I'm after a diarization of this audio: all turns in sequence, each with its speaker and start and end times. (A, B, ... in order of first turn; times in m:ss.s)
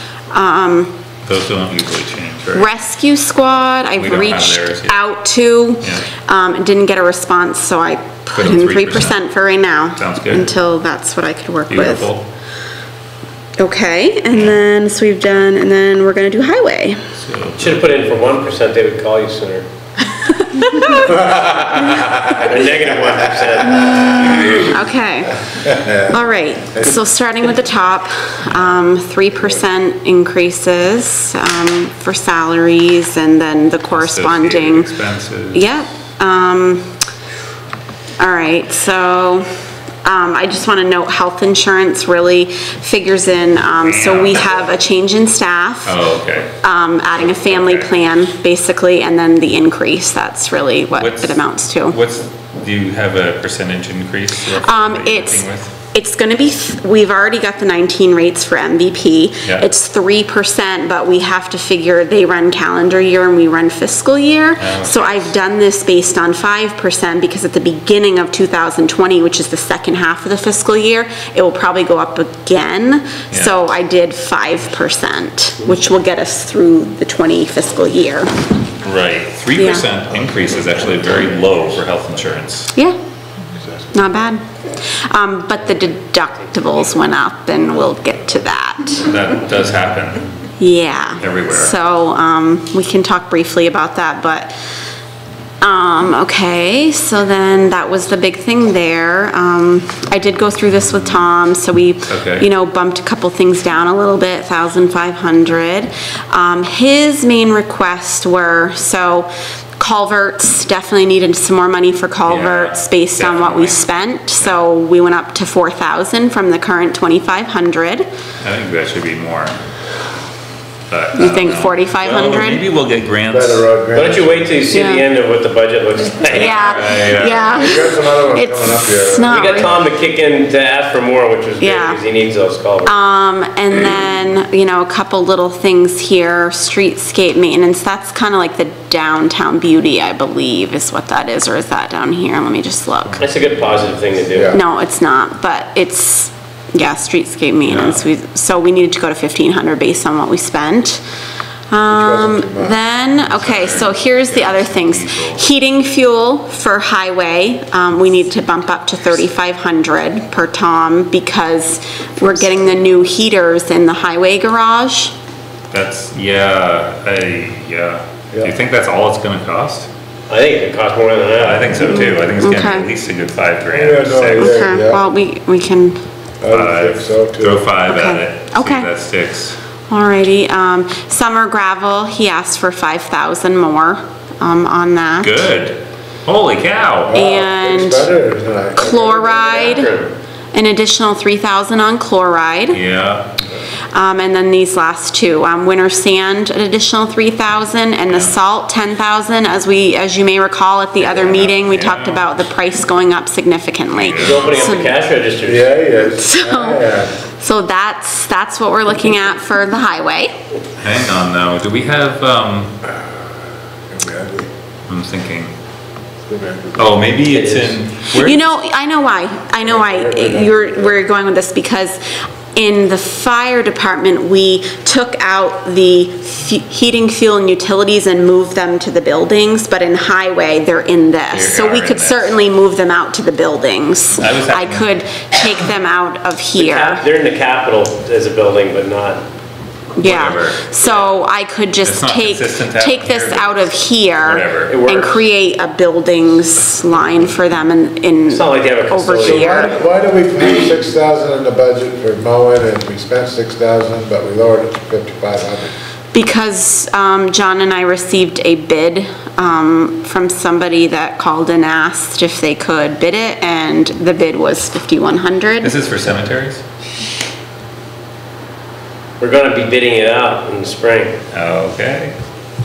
0:00.3-0:01.0 A
0:01.2-0:02.7 B
0:02.5-0:12.1 A
0:04.0-0:05.0 B
0:05.8-0:06.1 B
0:08.3-0:09.2 B
0:09.9-0:10.6 B
0:11.7-0:12.2 B
0:13.6-0:17.0 A
0:17.2-0:18.0 B
0:17.6-0:19.6 C
0:20.1-0:21.2 A
0:21.2-0:24.6 C
0:21.3-0:22.2 D
0:21.8-0:22.2 A
0:23.7-0:34.9 A
0:25.6-0:26.2 D
0:33.9-0:35.7 B
0:35.5-0:37.0 A
0:38.2-0:39.5 A
0:40.0-0:46.0 A
0:43.8-0:44.7 B
0:45.8-0:46.6 B
0:46.6-0:52.0 A
0:47.2-0:47.9 B
0:51.0-0:55.7 B
0:54.6-1:18.4 A
1:04.6-1:05.3 B
1:18.8-1:22.8 B
1:19.6-1:19.8 A
1:23.6-1:24.1 D
1:23.9-1:29.1 A
1:26.4-1:27.0 C
1:29.0-1:30.3 B
1:30.6-1:34.5 A
1:31.2-1:31.8 B
1:35.6-1:58.0 A
1:42.1-1:42.5 B
1:52.3-1:54.6 B
1:58.4-1:59.6 B
2:00.9-2:03.7 B
2:01.2-2:02.7 A
2:03.3-2:04.5 D
2:03.9-2:06.7 C
2:04.7-2:05.0 A
2:06.3-2:09.7 A
2:06.3-2:07.7 B
2:07.5-2:09.5 D
2:09.2-2:12.9 C
2:11.6-2:12.0 A
2:12.8-2:23.2 A
2:23.0-2:23.9 B
2:23.2-2:24.6 C
2:24.3-2:24.6 D
2:24.5-2:31.0 A
2:27.7-2:28.0 B
2:31.7-2:45.1 A
2:31.9-2:32.8 D
2:33.2-2:35.4 B
2:45.7-2:49.9 B
2:50.3-2:52.1 C
2:51.4-2:54.7 B
2:51.8-2:52.9 A
2:53.7-2:55.0 D
2:54.3-2:56.0 A
2:56.4-2:57.7 D
2:56.5-2:59.6 B
2:57.8-2:58.9 A
2:59.9-3:05.3 A
3:05.2-3:07.2 B
3:07.1-3:09.8 D
3:07.1-3:08.1 A
3:08.8-3:09.9 A
3:09.2-3:10.1 C
3:10.5-3:12.8 A
3:12.7-3:13.3 B
3:13.9-3:25.0 A
3:18.1-3:18.4 B
3:21.0-3:22.4 B
3:23.9-3:24.8 B
3:24.1-3:25.8 C
3:25.4-3:27.2 D
3:26.2-3:30.3 A
3:30.8-3:32.7 B
3:33.9-3:34.5 D
3:34.9-3:35.5 B
3:36.2-3:37.2 D
3:36.8-3:38.4 B
3:37.3-3:37.8 C
3:38.1-3:42.0 A
3:39.6-3:41.0 D
3:42.5-3:57.0 A
3:51.3-3:52.3 B
3:54.2-3:55.0 B
3:56.5-3:59.2 C
4:00.0-4:09.8 A
4:00.0-4:01.1 B
4:01.8-4:04.8 B
4:04.7-4:05.2 C
4:08.3-4:09.8 C
4:09.2-4:15.7 D
4:16.1-4:25.7 A
4:25.6-4:26.6 B
4:29.2-4:31.2 C
4:31.3-4:32.2 B